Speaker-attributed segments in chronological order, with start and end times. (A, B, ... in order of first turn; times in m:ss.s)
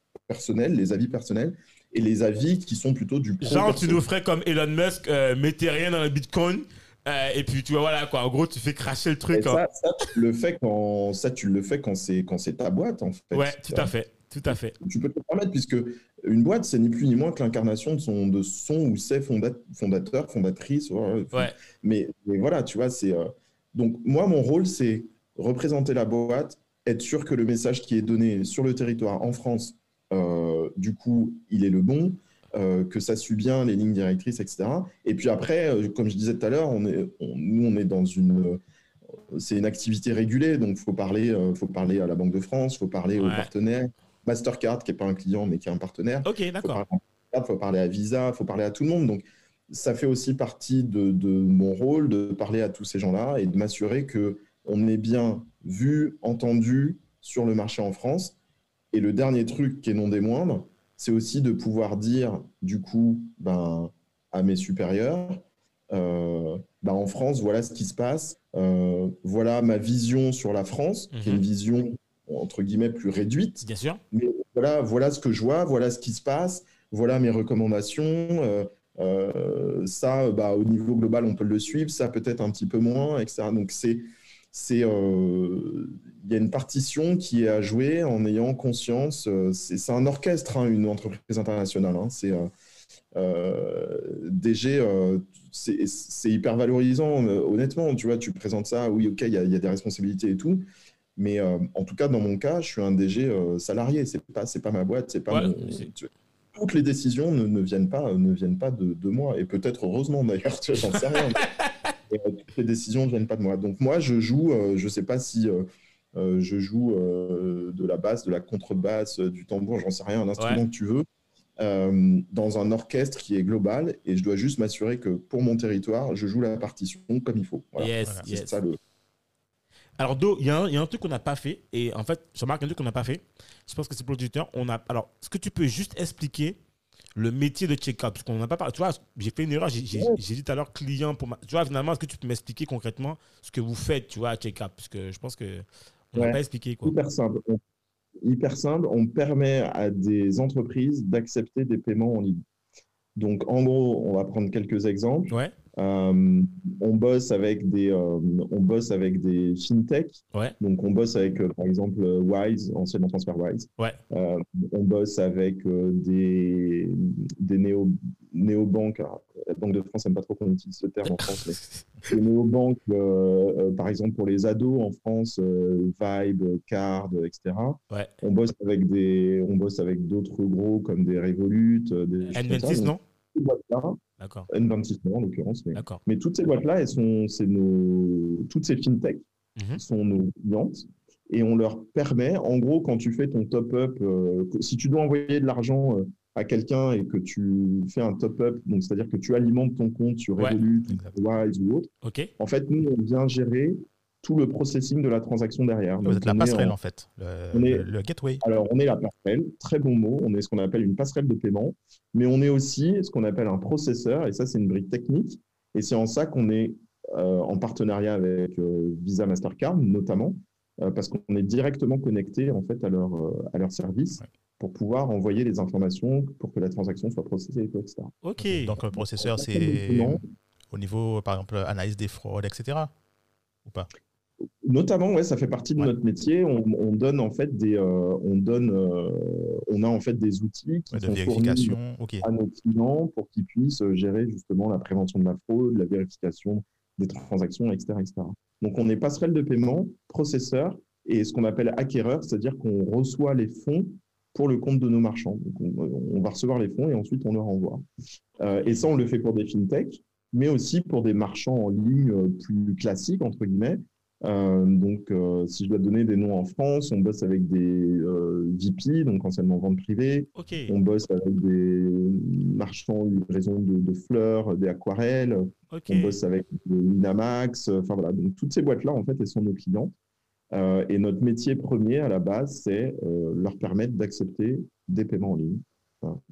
0:00.3-0:04.0 A
0:03.4-0:09.6 B
0:09.3-0:13.9 A
0:13.3-0:14.7 B
0:14.5-0:38.6 A
0:39.3-0:58.3 A
0:43.2-0:43.5 B
0:46.2-0:46.8 B
0:58.9-1:32.5 A
1:11.1-1:11.4 B
1:13.6-1:14.0 B
1:33.1-1:40.6 A
1:41.2-1:51.4 A
1:45.3-1:45.9 B
1:51.0-1:51.9 B
1:52.1-2:01.0 A
2:00.4-2:00.6 B
2:01.6-2:08.8 A
2:07.8-2:08.6 B
2:10.0-2:16.6 B
2:17.2-2:26.9 B
2:19.9-2:20.2 A
2:26.2-2:27.6 A
2:28.2-2:32.4 A
2:33.2-3:04.0 A
2:51.0-2:51.8 B
3:02.3-3:03.0 B
3:04.2-3:04.5 B
3:04.5-3:09.2 A
3:05.7-3:06.0 B
3:09.7-3:26.7 A
3:20.9-3:21.1 C
3:22.0-3:22.3 B
3:26.0-3:28.4 C
3:27.5-3:27.9 A
3:28.4-3:48.1 A
3:48.2-3:48.7 B
3:48.4-3:52.9 C
3:48.9-3:50.2 A
3:54.6-4:17.8 A
4:00.9-4:02.2 C
4:18.4-4:39.9 A
4:30.4-4:30.7 B
4:35.7-4:36.2 B
4:40.5-4:46.2 A